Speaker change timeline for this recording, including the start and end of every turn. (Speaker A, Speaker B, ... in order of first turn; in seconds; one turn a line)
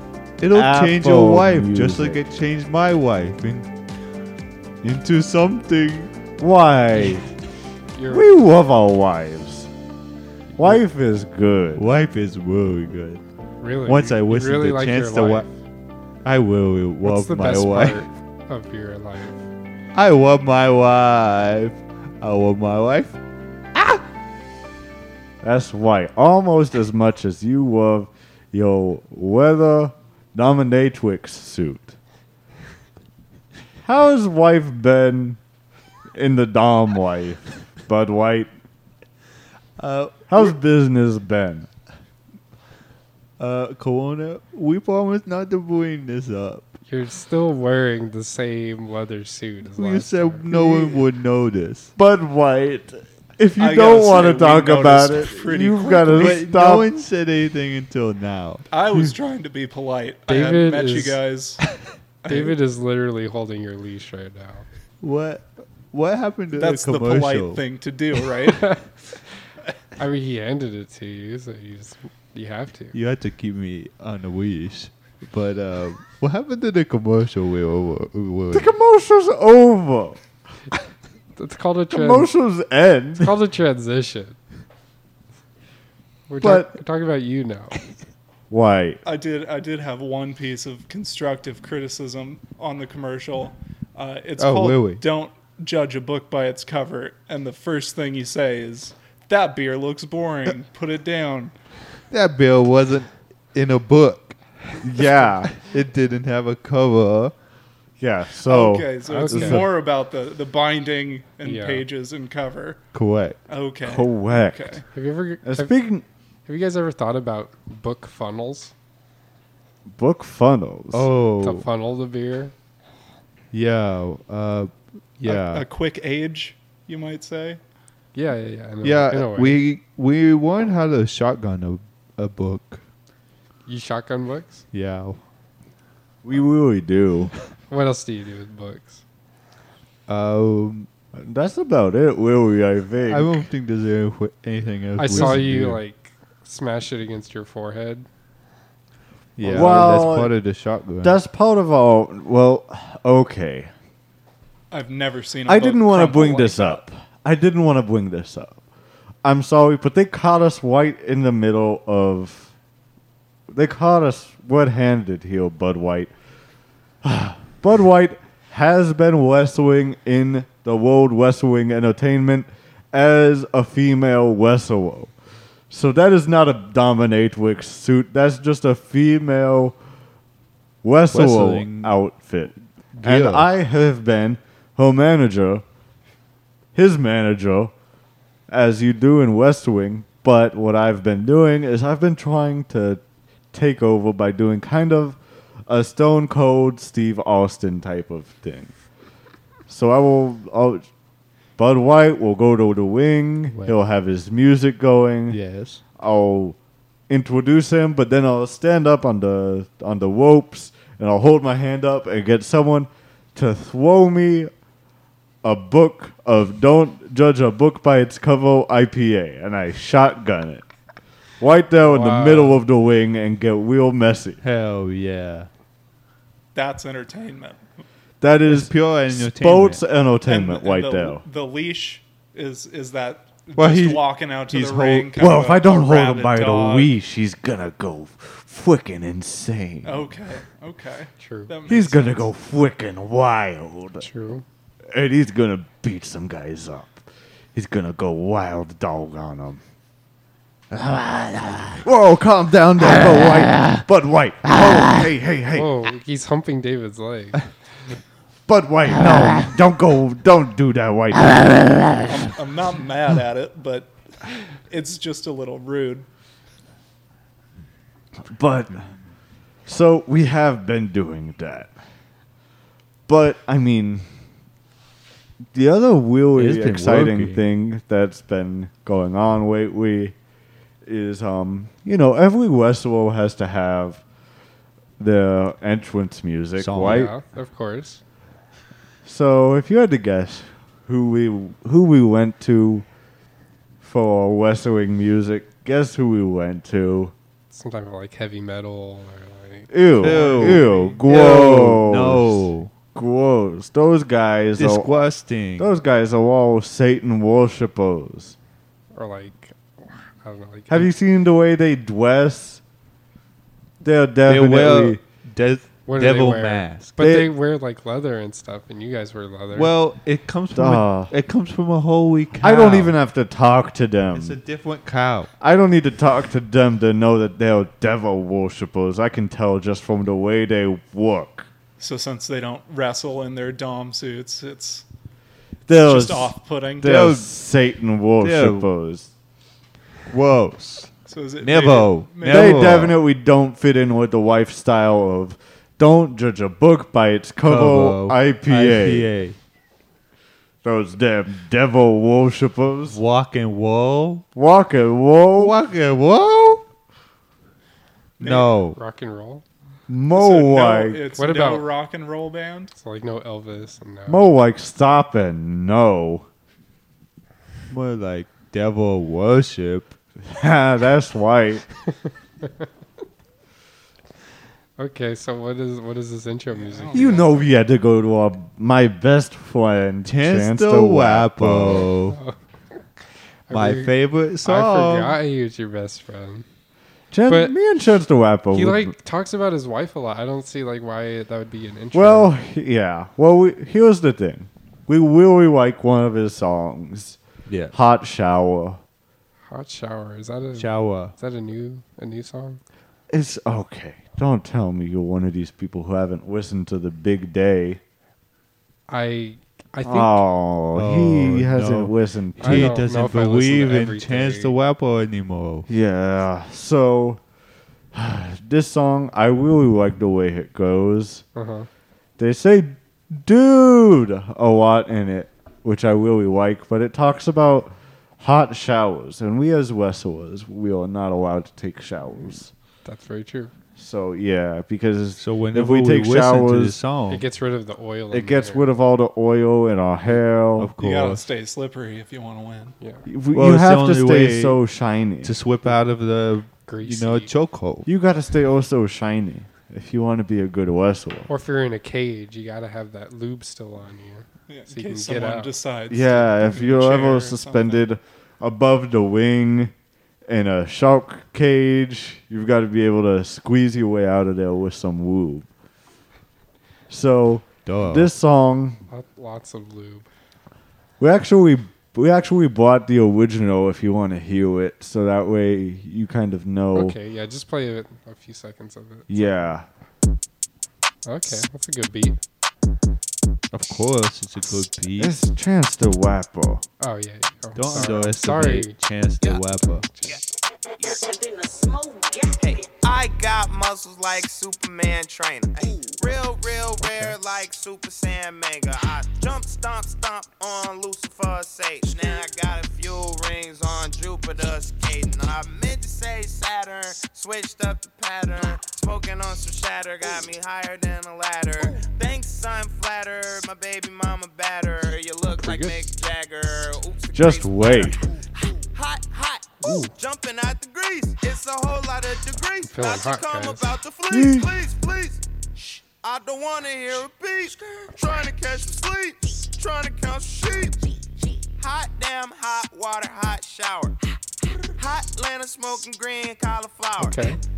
Speaker A: 0.4-3.7
Speaker B: 0.5-2.2
Speaker A: 4.8-6.1
Speaker B: 6.4-7.3
Speaker C: 7.9-8.3
Speaker B: 8.1-9.7
Speaker B: 10.6-11.9
Speaker A: 11.8-13.2
Speaker C: 13.6-15.5
Speaker A: 13.8-15.4
Speaker A: 16.2-18.0
Speaker C: 17.0-19.4
Speaker A: 19.9-23.2
Speaker B: 25.4-32.0
Speaker B: 33.8-35.4
Speaker B: 36.1-38.5
Speaker A: 39.8-40.5
Speaker B: 40.3-41.7
Speaker A: 43.4-46.8
Speaker C: 46.9-50.4
Speaker A: 49.8-51.9
Speaker B: 50.5-51.0
Speaker B: 52.0-57.0
Speaker D: 53.6-56.4
Speaker A: 56.1-59.0
Speaker D: 58.7-61.6
Speaker C: 60.3-61.2
Speaker D: 62.2-62.5
Speaker C: 62.3-64.7
Speaker A: 65.0-67.6
Speaker D: 66.5-68.7
Speaker C: 68.6-68.8
Speaker C: 70.0-72.9
Speaker A: 72.9-78.7
Speaker B: 78.5-80.2
Speaker C: 81.3-82.3
Speaker B: 81.9-83.3
Speaker C: 83.2-84.4
Speaker C: 86.3-87.8
Speaker B: 86.4-86.8
Speaker B: 88.5-89.0
Speaker D: 89.0-101.5
Speaker A: 94.4-95.0
Speaker A: 102.1-104.4
Speaker B: 104.8-105.5
Speaker A: 105.5-107.3
Speaker B: 108.0-109.7
Speaker D: 108.5-112.8
Speaker C: 109.1-109.7
Speaker C: 111.4-111.8
Speaker A: 112.9-113.4
Speaker D: 113.5-114.8
Speaker B: 113.8-114.8
Speaker C: 114.9-115.8
Speaker B: 115.4-116.0
Speaker C: 116.5-118.7
Speaker B: 119.9-121.1
Speaker A: 120.9-121.7
Speaker C: 121.4-122.5
Speaker A: 123.5-125.7
Speaker D: 125.2-127.6
Speaker C: 128.1-129.6
Speaker A: 128.8-132.8
Speaker C: 133.7-134.6
Speaker A: 134.7-135.2
Speaker B: 136.2-137.3
Speaker C: 137.7-139.0
Speaker A: 140.1-140.9
Speaker B: 141.1-143.4
Speaker A: 143.1-145.8
Speaker C: 145.0-148.1
Speaker A: 149.4-151.2
Speaker B: 149.4-150.3
Speaker B: 151.0-153.7
Speaker D: 154.7-156.8
Speaker B: 155.4-158.6
Speaker B: 159.2-162.5
Speaker B: 163.5-166.1
Speaker B: 167.0-175.1
Speaker B: 175.7-179.8
Speaker B: 180.8-185.6
Speaker A: 181.1-181.9
Speaker A: 182.9-183.5
Speaker B: 186.7-187.7
Speaker B: 188.5-193.0
Speaker B: 193.5-198.7
Speaker B: 199.7-200.8
Speaker B: 201.6-205.4
Speaker A: 205.3-205.8
Speaker B: 206.0-206.6
Speaker B: 207.1-214.5
Speaker B: 215.4-220.6
Speaker B: 221.4-224.4
Speaker C: 221.8-222.6
Speaker A: 224.4-225.5
Speaker D: 226.5-227.6
Speaker B: 228.2-231.2
Speaker A: 228.4-229.8
Speaker D: 230.2-236.9
Speaker A: 233.6-235.3
Speaker B: 235.2-240.1
Speaker D: 239.8-242.2
Speaker C: 241.2-241.5
Speaker B: 241.7-244.1
Speaker C: 244.0-244.4
Speaker B: 244.9-249.6
Speaker B: 250.7-255.7
Speaker C: 255.5-257.5
Speaker B: 258.5-261.9
Speaker D: 262.1-263.9
Speaker D: 264.7-266.1
Speaker B: 268.2-268.9
Speaker B: 269.6-271.7
Speaker B: 273.1-274.1
Speaker B: 275.5-280.1
Speaker A: 276.3-277.4
Speaker B: 280.8-284.0
Speaker B: 285.0-287.1
Speaker A: 286.6-287.1
Speaker C: 286.8-288.0
Speaker B: 289.0-292.8
Speaker B: 293.8-297.1
Speaker C: 297.5-299.7
Speaker B: 299.7-304.9
Speaker A: 300.0-302.7
Speaker D: 300.2-300.9
Speaker A: 304.6-305.7
Speaker B: 305.6-308.4
Speaker C: 308.9-310.9
Speaker B: 310.7-312.6
Speaker B: 313.8-315.0
Speaker A: 314.2-317.0
Speaker C: 315.9-319.7
Speaker B: 317.0-317.3
Speaker A: 319.5-322.9
Speaker B: 320.5-321.1
Speaker B: 322.4-324.4
Speaker A: 324.1-325.3
Speaker B: 325.4-331.5
Speaker D: 331.8-334.8
Speaker B: 335.7-339.1
Speaker D: 335.7-336.9
Speaker A: 336.8-337.3
Speaker A: 338.2-338.7
Speaker A: 340.1-343.0
Speaker D: 341.1-342.9
Speaker B: 342.2-349.1
Speaker A: 347.4-349.4
Speaker B: 350.6-353.0
Speaker A: 352.9-354.2
Speaker B: 354.3-355.6
Speaker A: 355.4-356.6
Speaker D: 358.2-358.5
Speaker A: 358.2-358.8
Speaker C: 358.6-359.4
Speaker B: 359.9-361.1
Speaker D: 360.1-362.7
Speaker C: 361.2-361.7
Speaker C: 362.8-364.2
Speaker B: 364.1-366.3
Speaker A: 367.7-369.9
Speaker B: 370.2-371.6
Speaker C: 374.8-377.2
Speaker D: 376.5-377.5
Speaker B: 376.9-381.9
Speaker A: 380.0-382.2
Speaker C: 382.1-382.4
Speaker C: 383.5-386.4
Speaker A: 383.5-385.2
Speaker B: 387.1-388.9
Speaker C: 387.3-387.5
Speaker C: 388.5-392.3
Speaker B: 391.9-397.2
Speaker A: 397.5-397.7
Speaker B: 397.7-398.8
Speaker C: 399.5-402.6
Speaker A: 400.6-401.1
Speaker B: 403.1-407.8
Speaker C: 408.9-410.2
Speaker B: 409.8-412.8
Speaker A: 410.7-415.7
Speaker C: 412.4-414.5
Speaker B: 415.7-417.2
Speaker B: 417.9-421.2
Speaker C: 421.3-421.7
Speaker B: 422.2-432.5
Speaker C: 432.8-433.5
Speaker B: 433.8-436.8
Speaker A: 435.2-437.2
Speaker C: 437.1-438.7
Speaker B: 438.1-440.7
Speaker A: 440.6-441.3
Speaker D: 440.8-442.7
Speaker C: 442.8-443.1
Speaker B: 443.1-445.4
Speaker A: 443.3-444.6
Speaker A: 445.2-447.9
Speaker C: 446.6-447.3
Speaker B: 447.8-451.3
Speaker C: 451.3-455.5
Speaker D: 454.5-457.8
Speaker B: 455.9-459.7
Speaker B: 460.3-465.5
Speaker B: 466.9-468.8
Speaker A: 467.6-468.1
Speaker C: 468.9-470.1
Speaker B: 471.0-476.9
Speaker C: 476.7-479.4
Speaker B: 479.1-479.7
Speaker C: 481.0-482.2
Speaker A: 483.5-485.2
Speaker B: 485.0-486.6
Speaker C: 486.8-488.8
Speaker A: 487.5-489.9
Speaker C: 489.6-490.2
Speaker E: 490.8-491.5
Speaker E: 492.3-518.0
Speaker C: 496.8-497.1
Speaker C: 515.3-515.9
Speaker B: 517.1-518.0
Speaker E: 518.6-525.2
Speaker C: 519.6-519.9
Speaker C: 522.6-523.8
Speaker B: 524.1-524.5
Speaker E: 526.0-530.8
Speaker E: 531.6-534.0
Speaker E: 534.8-537.4
Speaker C: 537.0-537.4